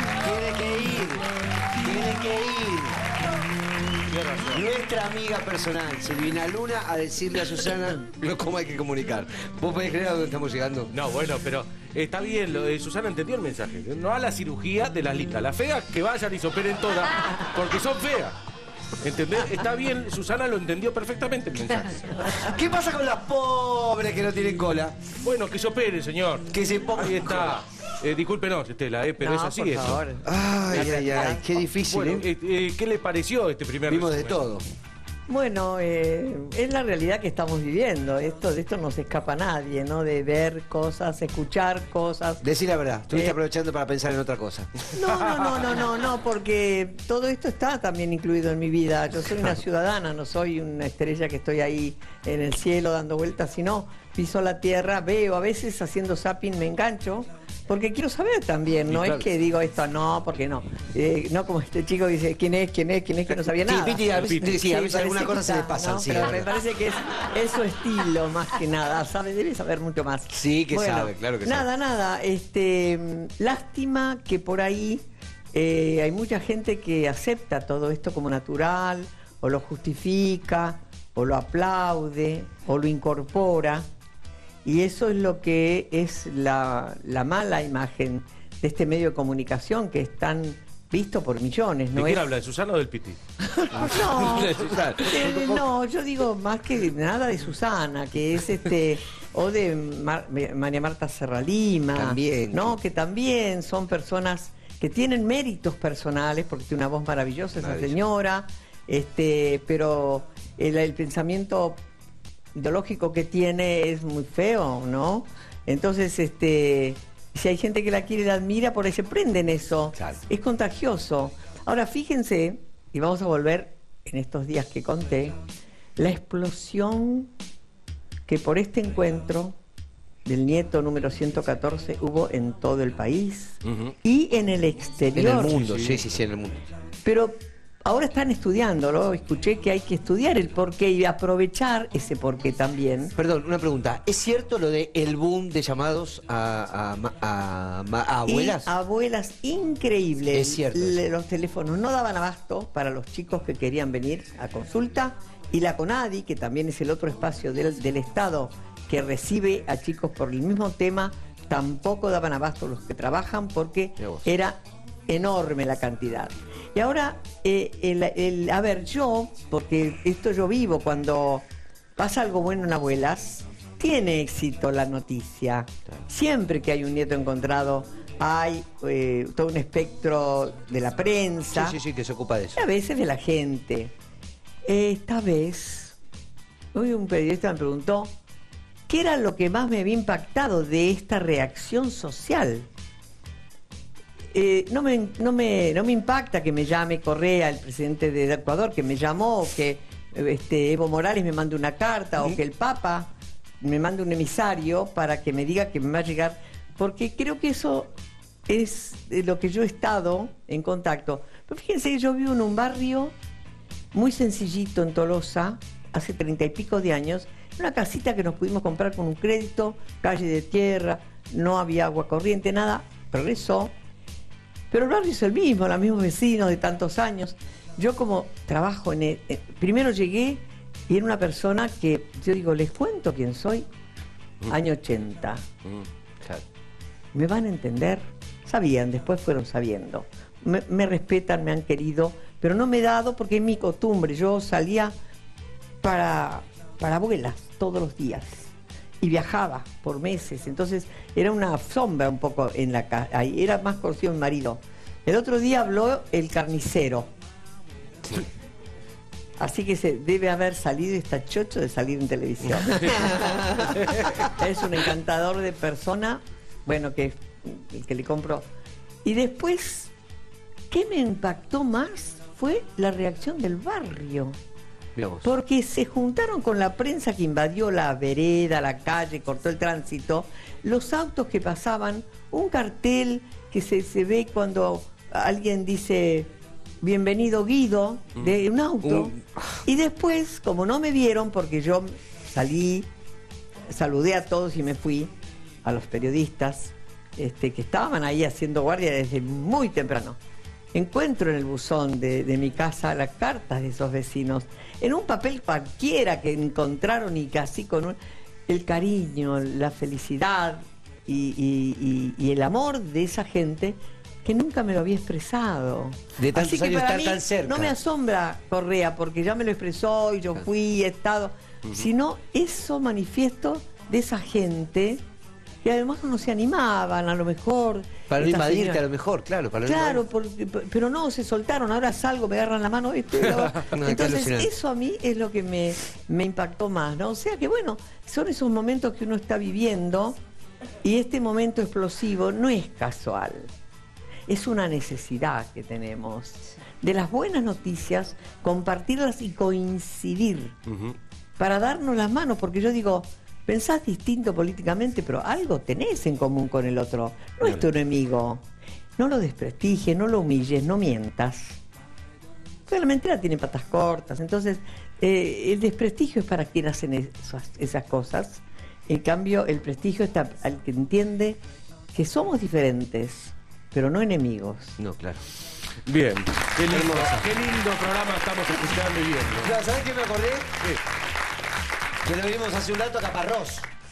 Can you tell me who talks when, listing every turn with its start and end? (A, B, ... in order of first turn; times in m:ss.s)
0:00.2-0:01.3 A
0:01.8-0:03.0 A
0:04.1-0:04.6 B
0:04.5-0:10.9 A
0:10.9-0:18.4 B
0:19.0-0:22.4 B
0:22.2-0:25.0 A
0:25.2-0:30.0 B
0:26.5-0:27.6 A
0:29.2-0:31.4 C
0:30.2-0:32.3 A
0:30.7-0:34.4 B
0:33.9-0:34.6 A
0:35.3-0:42.4 C
0:42.4-0:44.7 A
0:43.1-0:43.4 C
0:44.9-1:23.9 C
0:58.9-0:59.2 A
1:03.3-1:06.5 A
1:04.2-1:04.5 B
1:10.3-1:11.7 A
1:24.6-1:32.3 C
1:31.9-1:33.2 B
1:33.7-1:35.6 A
1:33.7-1:51.8 C
1:34.6-1:35.0 B
1:42.0-1:42.8 A
1:47.6-1:48.0 A
1:52.6-2:05.4 C
2:06.0-2:07.3 C
2:08.3-2:09.6 C
2:10.2-2:15.6 C
2:13.7-2:13.9 B
2:15.2-2:16.7 A
2:15.5-2:16.0 B
2:17.0-2:23.2 C
2:23.2-2:28.7 A
2:28.2-3:01.8 C
2:30.3-2:31.0 A
3:01.5-3:02.6 A
3:02.6-3:03.9 C
3:04.6-3:06.0 C
3:06.7-3:08.2 C
3:08.9-3:12.7 C
3:14.3-3:27.9 C
3:28.5-3:33.1 C
3:33.9-3:43.7 C
3:44.7-3:53.7 C
3:54.5-3:55.5 C
3:57.1-4:04.9 C
4:05.8-4:17.1 C
4:19.4-4:28.5 C
4:22.7-4:24.1 B
4:29.0-4:29.9 C
4:30.7-4:34.4 C
4:35.0-4:35.3 A
4:35.2-4:49.1 C
4:49.6-4:52.9 C
4:53.7-4:55.1 C
4:55.6-5:00.2 C
5:00.7-5:25.0 C
5:16.2-5:17.8 A
5:25.6-5:28.8 C
5:28.1-5:30.0 A
5:29.6-5:40.2 C
5:33.2-5:34.5 A
5:40.8-5:43.5 C
5:44.3-5:50.6 C
5:50.7-5:50.9 B
5:51.4-5:58.4 C
5:59.0-6:01.6 C
6:02.7-6:11.4 C
6:11.9-6:14.8 C
6:14.8-6:15.3 A
6:15.8-6:19.6 B
6:16.7-6:17.3 A
6:19.4-6:20.5 A
6:22.0-6:23.7 A